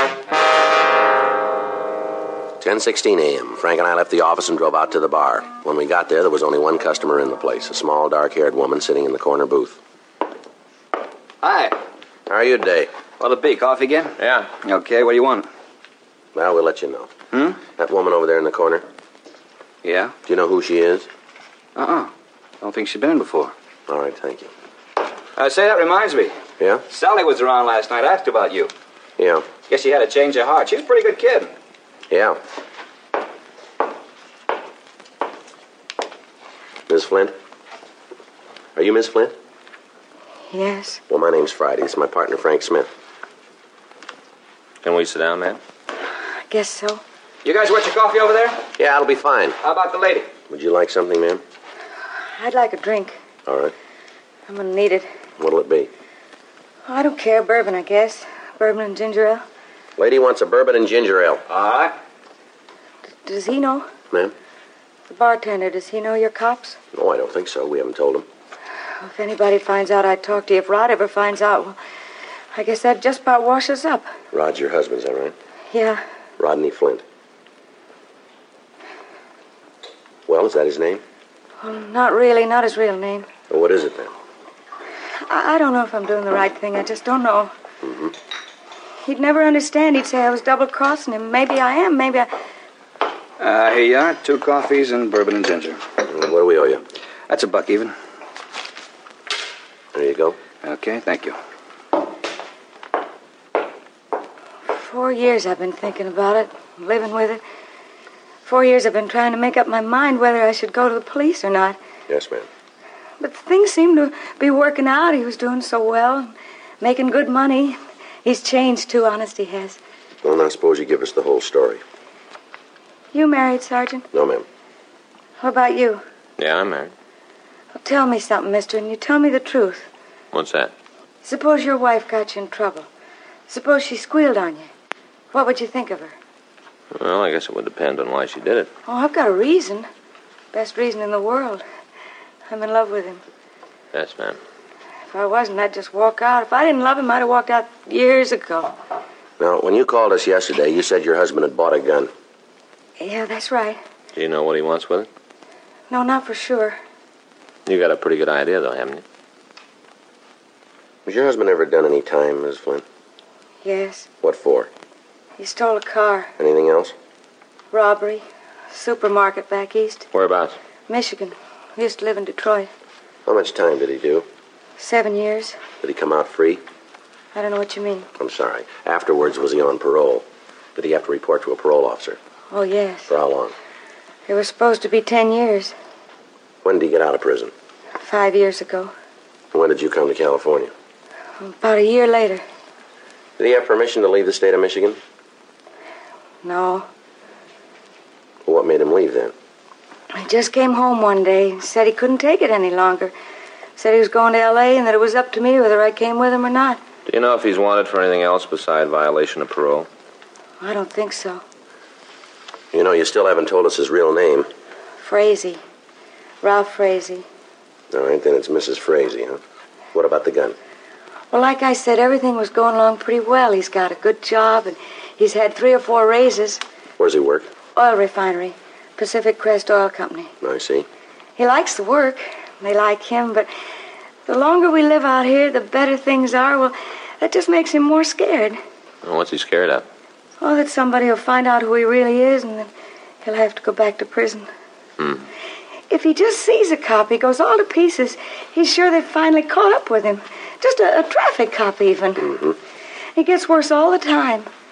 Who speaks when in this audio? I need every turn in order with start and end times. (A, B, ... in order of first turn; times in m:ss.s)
0:02.6-0:09.8 A
0:11.4-0:11.8 B
0:12.3-0:12.9 A
0:13.2-0:15.5 B
0:14.2-0:14.5 C
0:16.3-0:17.1 A
0:17.3-0:17.6 B
0:17.7-0:18.8 A
0:19.8-0:20.1 B
0:20.2-0:21.1 A
0:21.8-0:23.5 B
0:23.9-0:24.5 A
0:25.4-0:26.3 B
0:26.9-0:28.7 B
0:29.2-0:29.5 A
0:29.6-0:31.5 B
0:32.1-0:32.4 A
0:36.9-0:37.3 A
0:38.8-0:39.3 A
0:40.5-0:41.0 D
0:41.1-0:42.9 A
0:44.8-0:45.6 C
0:46.5-0:47.0 D
0:47.4-0:48.7 B
0:48.8-0:49.6 A
0:49.6-0:50.3 B
0:50.5-0:51.4 A
0:52.4-0:53.2 D
0:53.4-0:53.7 A
0:54.5-0:55.1 D
0:55.4-0:55.9 A
0:56.9-0:59.4 D
1:00.0-1:01.4 A
1:01.5-1:01.9 B
1:03.2-1:03.8 D
1:05.1-1:06.8 D
1:06.9-1:08.2 A
1:09.0-1:11.8 D
1:12.5-1:14.1 D
1:14.3-1:15.3 A
1:15.7-1:16.0 D
1:16.4-1:17.0 A
1:20.3-1:21.0 A
1:21.6-1:23.3 D
1:23.5-1:24.1 A
1:25.2-1:27.5 D
1:27.8-1:28.1 A
1:29.0-1:32.3 D
1:33.4-1:35.8 B
1:36.1-1:36.8 A
1:37.3-1:37.9 B
1:39.9-1:40.4 A
1:40.6-1:41.4 B
1:44.7-1:47.4 D
1:48.4-1:51.8 D
1:52.1-1:52.4 A
1:53.2-1:59.8 D
2:00.2-2:01.8 A
2:03.1-2:04.1 D
2:04.1-2:04.4 A
2:05.4-2:06.0 D
2:06.4-2:06.9 C
2:07.8-2:09.9 D
2:10.3-2:10.7 C
2:11.2-2:12.9 D
2:13.5-2:14.7 D
2:15.3-2:16.1 D
2:16.9-2:18.7 C
2:18.9-2:19.9 D
2:20.5-2:21.6 D
2:22.5-2:23.2 D
2:23.9-2:24.4 C
2:25.1-2:28.7 D
2:29.4-2:32.1 A
2:33.0-2:33.8 D
2:34.1-2:35.1 C
2:35.9-2:36.8 D
2:37.6-2:39.0 C
2:41.0-2:42.8 A
2:43.6-2:44.1 D
2:44.2-2:44.7 A
2:45.4-2:46.3 D
2:46.4-2:46.9 A
2:47.7-2:50.1 D
2:50.1-2:50.6 C
2:50.9-2:52.7 D
2:53.2-2:54.2 A
2:54.8-2:55.6 D
2:55.8-2:56.6 A
2:57.3-2:58.1 D
2:58.2-3:00.2 A
3:00.8-3:02.2 A
3:02.5-3:03.1 D
3:03.1-3:03.5 A
3:04.3-3:05.7 D
3:06.6-3:07.5 A
3:08.0-3:08.9 D
3:09.5-3:10.7 A
3:11.4-3:12.4 D
3:13.4-3:15.0 A
3:16.4-3:16.9 D
3:18.4-3:19.3 A
3:20.1-3:23.1 D
3:23.8-3:26.8 D
3:27.0-3:29.9 C
3:30.6-3:31.4 D
3:32.7-3:34.5 A
3:35.0-3:35.6 D
3:36.4-3:37.2 D
3:37.9-3:39.4 A
3:39.9-3:40.6 A
3:41.3-3:46.6 D
3:47.0-3:47.5 A
3:47.7-3:50.3 D
3:50.4-3:50.8 A
3:51.4-3:53.5 D
3:54.3-3:58.6 D
3:59.0-3:59.8 C
4:00.4-4:02.7 D
4:03.2-4:04.5 D
4:05.9-4:12.4 D
4:13.2-4:14.5 D